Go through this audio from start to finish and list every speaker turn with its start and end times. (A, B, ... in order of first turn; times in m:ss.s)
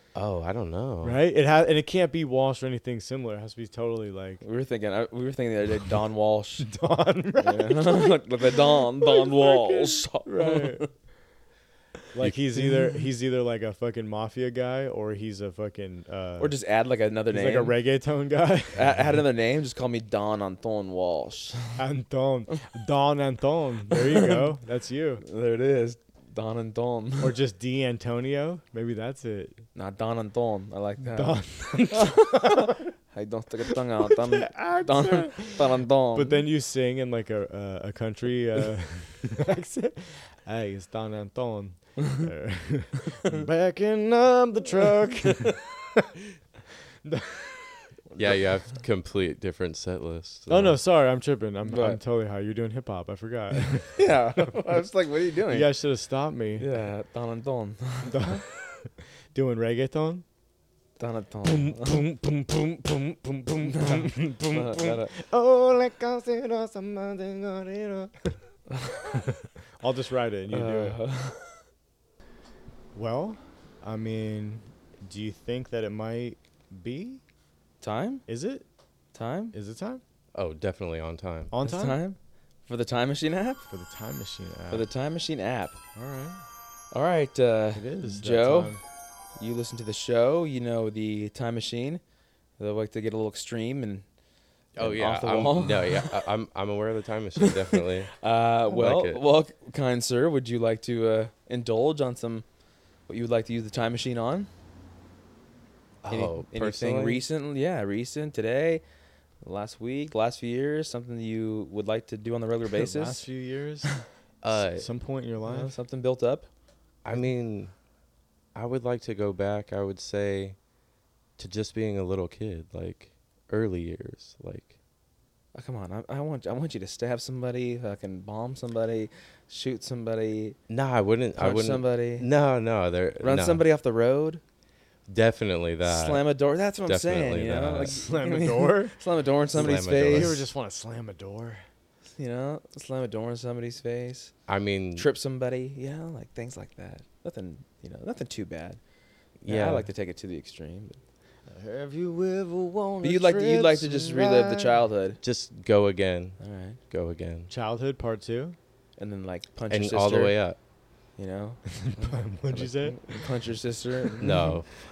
0:00.1-0:01.2 A
0:01.0-0:04.4 B
0:04.4-0:06.6 C
0:06.6-0:08.2 B
0:07.4-0:10.9 C
0:09.0-0:10.8 B
0:12.1-0:16.6 B
0:16.4-0:17.7 C
0:17.3-0:19.0 B
0:18.7-0:21.8 C
0:21.8-0:25.2 B
0:23.9-0:24.4 C
0:25.2-0:27.4 C
0:27.2-0:29.6 B
0:29.7-0:36.4 C
0:31.0-0:32.8 B
0:34.1-0:45.6 B
0:47.0-0:47.7 B
0:48.2-0:50.8 A
0:50.5-0:54.0 B
0:51.6-0:52.0 C
0:54.0-0:55.7 C
0:55.5-0:56.7 B
0:56.6-0:58.4 C
0:58.0-0:58.5 B
0:59.3-1:00.2 B
1:01.0-1:02.0 C
1:01.4-1:08.4 B
1:03.6-1:05.1 C
1:08.7-1:09.1 C
1:09.8-1:11.0 B
1:10.5-1:11.6 C
1:12.9-1:17.2 B
1:17.8-1:18.2 C
1:18.3-1:18.6 B
1:19.1-1:19.5 C
1:19.5-1:20.0 B
1:20.3-1:21.5 A
1:21.5-1:22.0 B
1:21.6-1:23.6 C
1:23.7-1:24.9 B
1:24.7-1:25.8 C
1:25.9-1:26.4 B
1:26.9-1:28.7 C
1:27.7-1:28.8 B
1:29.4-1:32.0 C
1:32.6-1:34.0 C
1:34.8-1:36.2 C
1:34.8-1:38.1 A
1:37.4-1:42.4 C
1:38.7-1:39.2 A
1:43.1-1:44.5 C
1:46.0-1:47.2 A
1:46.1-1:48.8 C
1:49.4-1:53.2 C
1:52.7-1:53.9 B
1:54.4-1:54.9 A
1:54.5-1:55.7 B
1:55.4-1:56.5 C
1:57.0-1:57.7 A
1:58.5-2:00.6 A
2:01.4-2:04.7 A
2:05.5-2:10.6 C
2:10.7-2:13.6 A
2:11.4-2:12.3 C
2:13.2-2:14.4 C
2:15.1-2:16.3 A
2:15.8-2:20.4 C
2:16.8-2:18.0 A
2:17.8-2:18.9 B
2:19.5-2:20.4 A
2:20.1-2:21.6 B
2:22.2-2:24.3 C
2:24.5-2:25.1 A
2:25.0-2:28.8 C
2:29.4-2:29.9 A
2:29.5-2:31.0 C
2:31.5-2:34.8 B
2:33.0-2:35.2 C
2:35.2-2:36.4 A
2:36.4-2:36.8 C
2:36.9-2:37.5 A
2:37.5-2:38.6 B
2:39.0-2:40.4 C
2:39.7-2:40.6 A
2:41.2-2:44.4 C
2:41.8-2:43.2 B
2:44.2-2:44.7 A